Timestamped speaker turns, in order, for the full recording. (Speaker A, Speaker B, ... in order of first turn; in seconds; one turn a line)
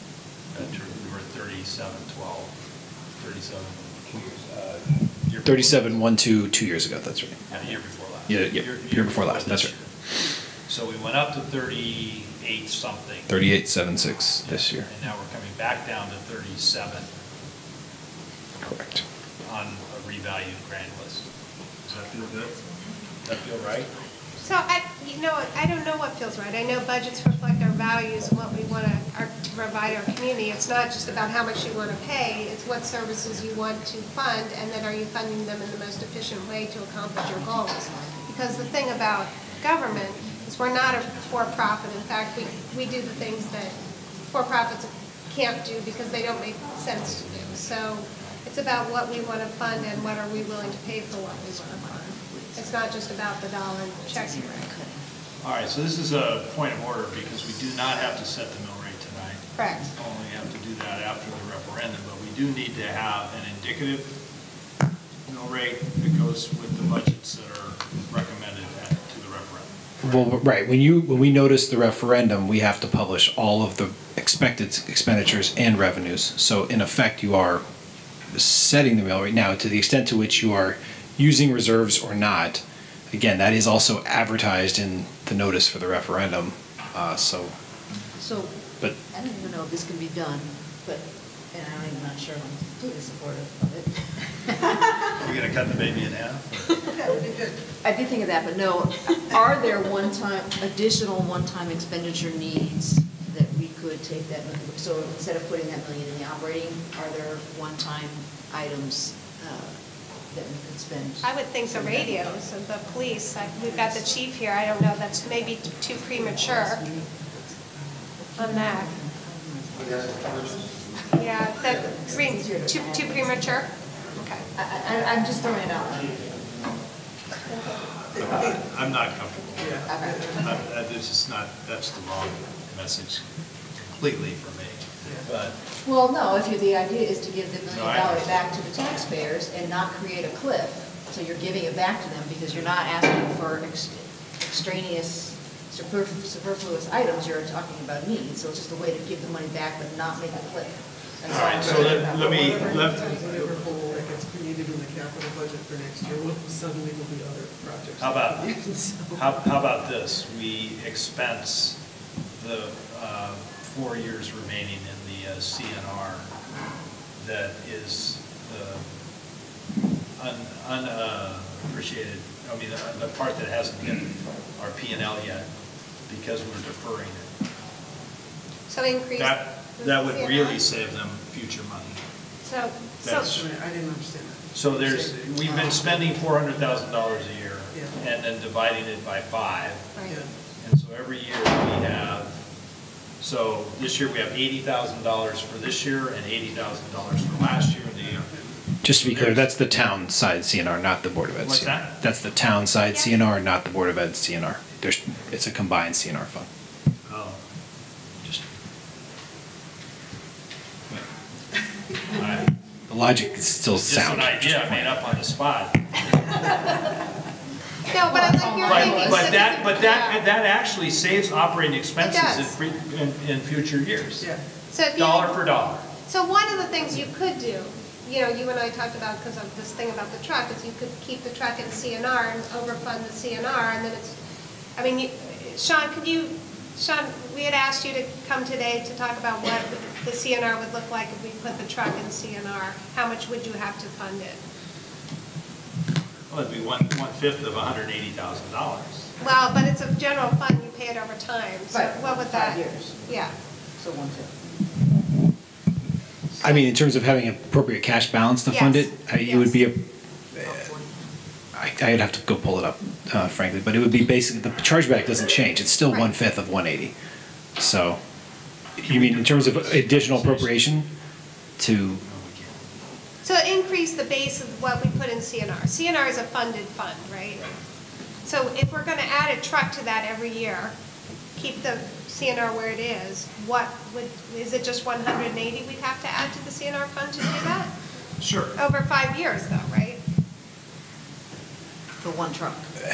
Speaker A: 0.5-2.5
Speaker A: 3.2-6.0
Speaker B: 5.4-7.5
Speaker A: 7.5-9.9
Speaker B: 8.3-9.7
Speaker A: 10.7-13.3
Speaker B: 13.3-14.9
Speaker A: 14.4-17.1
Speaker B: 18.6-19.0
Speaker A: 19.4-21.3
Speaker A: 21.8-22.6
Speaker A: 23.2-23.9
Speaker C: 24.4-43.7
Speaker D: 37.8-38.2
Speaker C: 44.3-51.9
Speaker D: 51.2-53.0
Speaker C: 52.5-54.7
Speaker D: 54.1-55.0
Speaker A: 55.4-64.2
Speaker C: 59.6-59.9
Speaker A: 65.3-70.3
Speaker B: 70.0-77.6
Speaker B: 78.3-87.5
Speaker D: 88.2-95.0
Speaker A: 95.1-96.8
Speaker D: 97.7-112.3
Speaker C: 111.2-116.8
Speaker D: 118.2-120.8
Speaker C: 118.4-118.9
Speaker C: 121.1-124.5
Speaker D: 121.7-123.7
Speaker D: 124.5-126.5
Speaker A: 128.1-133.2
Speaker E: 129.6-129.9
Speaker D: 129.9-130.6
Speaker A: 133.8-135.6
Speaker D: 135.8-153.0
Speaker A: 137.7-138.4
Speaker A: 151.2-153.5
Speaker E: 152.2-159.1
Speaker A: 158.0-158.5
Speaker A: 159.1-161.8
Speaker A: 162.4-166.3
Speaker A: 167.2-168.8
Speaker A: 170.2-175.5
Speaker A: 176.1-177.3
Speaker C: 178.7-180.6
Speaker A: 179.2-182.0
Speaker C: 182.4-183.3
Speaker A: 183.0-183.5
Speaker E: 183.3-185.1
Speaker A: 184.5-189.9
Speaker D: 185.4-185.8
Speaker C: 189.9-190.2
Speaker A: 190.6-192.4
Speaker A: 193.2-198.3
Speaker B: 198.8-206.5
Speaker A: 198.9-199.5
Speaker A: 201.4-201.9
Speaker C: 202.9-203.2
Speaker A: 207.1-207.4
Speaker A: 208.2-208.4
Speaker A: 212.1-212.5
Speaker B: 212.9-215.0
Speaker A: 213.8-216.3
Speaker C: 217.9-220.2
Speaker D: 218.1-219.4
Speaker A: 218.6-224.3
Speaker C: 222.0-222.5
Speaker C: 224.7-225.4
Speaker A: 224.9-225.9
Speaker C: 226.1-234.1
Speaker C: 234.8-244.4
Speaker A: 246.3-249.1
Speaker C: 249.2-253.3
Speaker D: 251.7-253.1
Speaker D: 253.8-254.5
Speaker B: 256.4-259.8
Speaker C: 258.5-259.6
Speaker D: 260.4-261.1
Speaker B: 261.5-266.9
Speaker B: 267.6-268.0
Speaker A: 268.8-270.7
Speaker B: 268.8-270.9
Speaker B: 271.6-272.0
Speaker A: 272.0-272.6
Speaker C: 273.2-277.4
Speaker C: 278.2-280.7
Speaker C: 281.4-287.7
Speaker A: 288.2-288.6
Speaker C: 288.6-290.0
Speaker D: 292.0-292.7